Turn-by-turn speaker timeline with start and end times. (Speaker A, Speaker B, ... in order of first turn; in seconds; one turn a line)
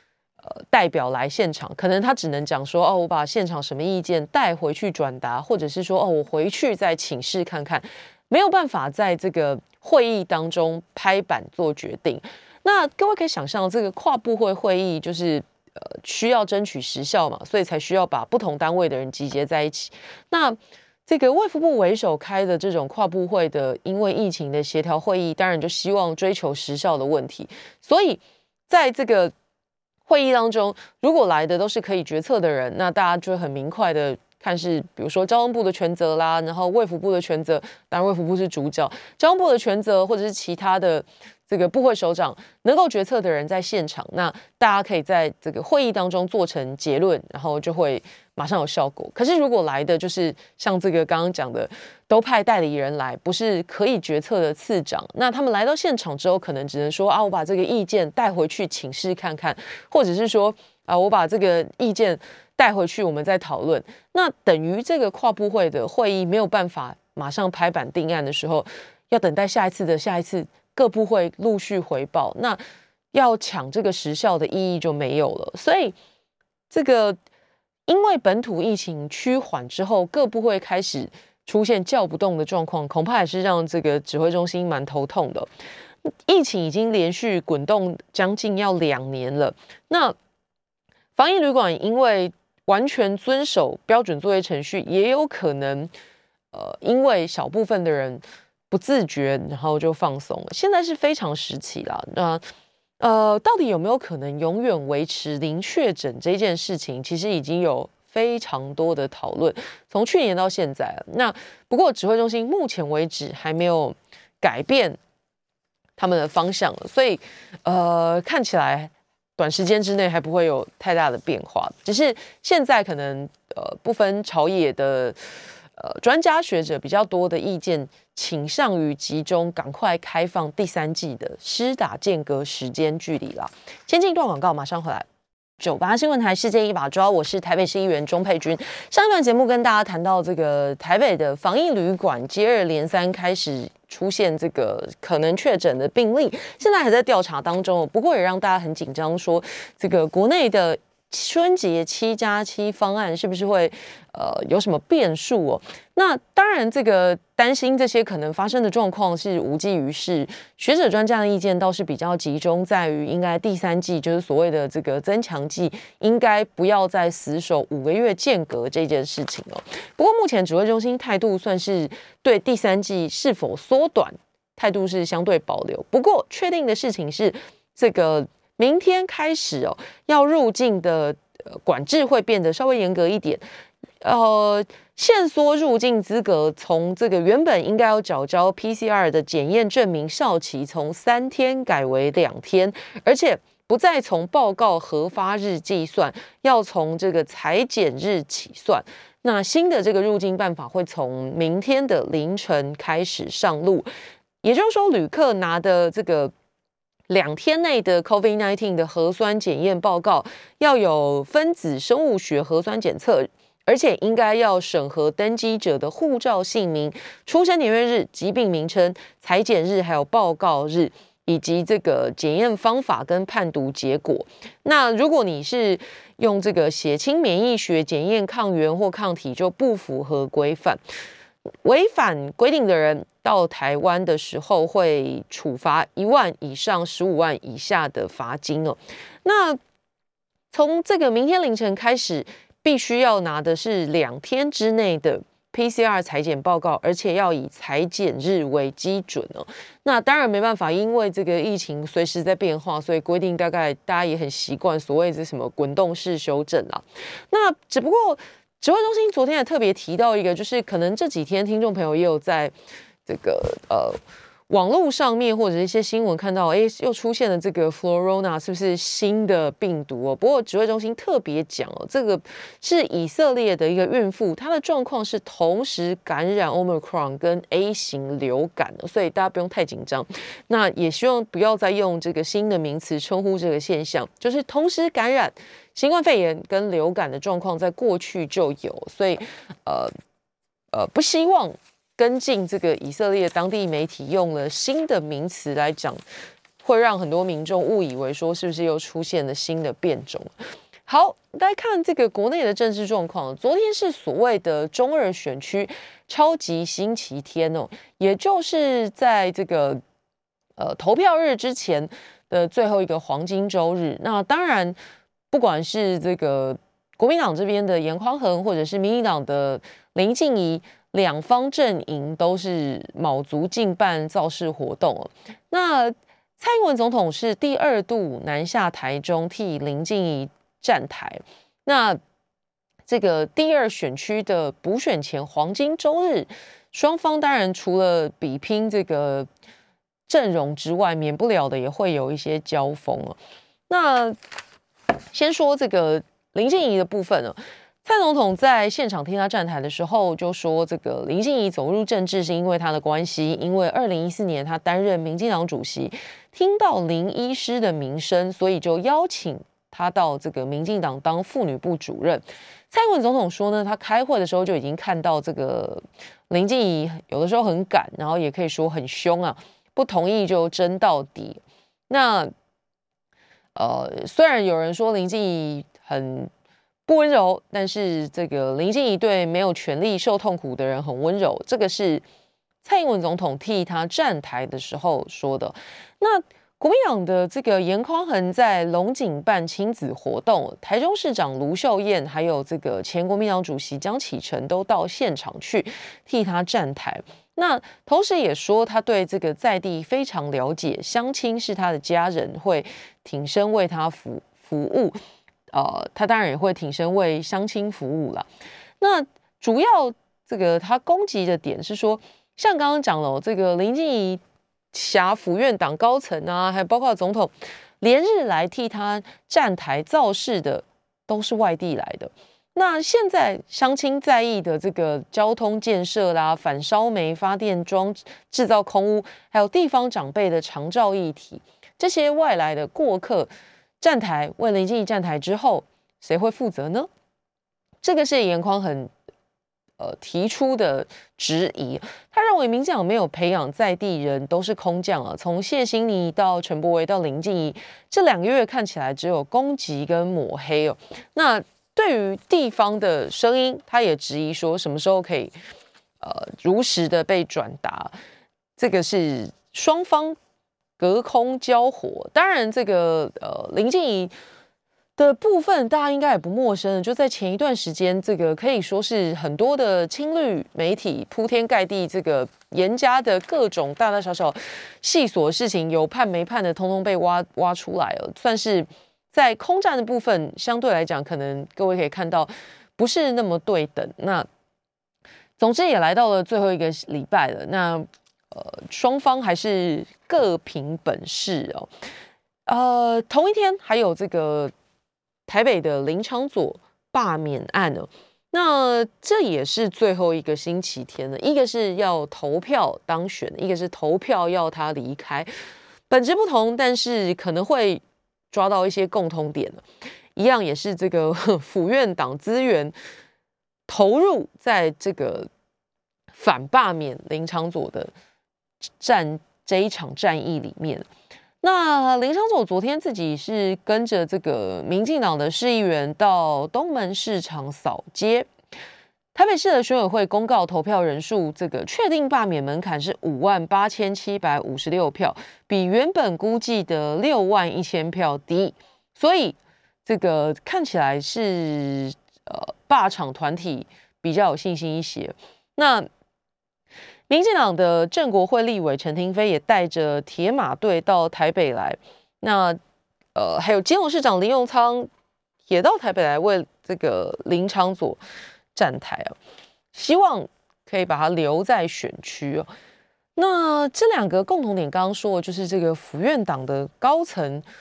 Speaker A: 0.4-29.3
Speaker A: 30.1-72.6
Speaker A: 73.1-76.0
Speaker A: 76.7-77.2
Speaker A: 77.9-85.5
Speaker A: 86.0-90.1
Speaker A: 91.2-95.9
Speaker A: 96.5-102.4
Speaker A: 103.0-115.0
Speaker A: 116.0-125.2
Speaker A: 125.8-135.1
Speaker A: 135.6-183.4
Speaker A: 184.0-203.9
Speaker A: 204.4-206.3
Speaker A: 207.1-230.8
Speaker A: 231.6-239.6
Speaker A: 240.5-262.5
Speaker A: 263.1-264.0
Speaker A: 264.5-289.9
Speaker A: 290.7-296.0
Speaker A: 296.6-300.3
Speaker A: 300.9-309.8
Speaker A: 310.6-314.8
Speaker A: 315.3-332.0
Speaker A: 332.9-339.3
Speaker A: 340.1-343.1
Speaker A: 343.7-344.1
Speaker A: 345.1-372.3
Speaker A: 373.6-376.3
Speaker A: 376.9-382.0
Speaker A: 382.6-405.0
Speaker A: 405.5-408.3
Speaker A: 408.8-414.2
Speaker A: 414.7-433.3
Speaker A: 433.8-436.9
Speaker A: 437.8-438.9
Speaker A: 439.8-455.3
Speaker A: 456.0-457.9
Speaker A: 458.6-460.1
Speaker A: 460.8-464.1
Speaker A: 465.0-484.3
Speaker A: 485.4-491.7
Speaker A: 492.4-494.5
Speaker A: 495.3-505.3
Speaker A: 505.9-509.6
Speaker A: 510.1-512.7
Speaker A: 513.7-515.3
Speaker A: 516.1-517.9
Speaker A: 518.8-520.9
Speaker A: 521.4-528.3
Speaker A: 529.1-545.9
Speaker A: 547.1-552.6
Speaker A: 553.1-554.9
Speaker A: 555.5-558.0
Speaker A: 558.5-559.1
Speaker A: 559.7-562.5
Speaker A: 563.1-567.4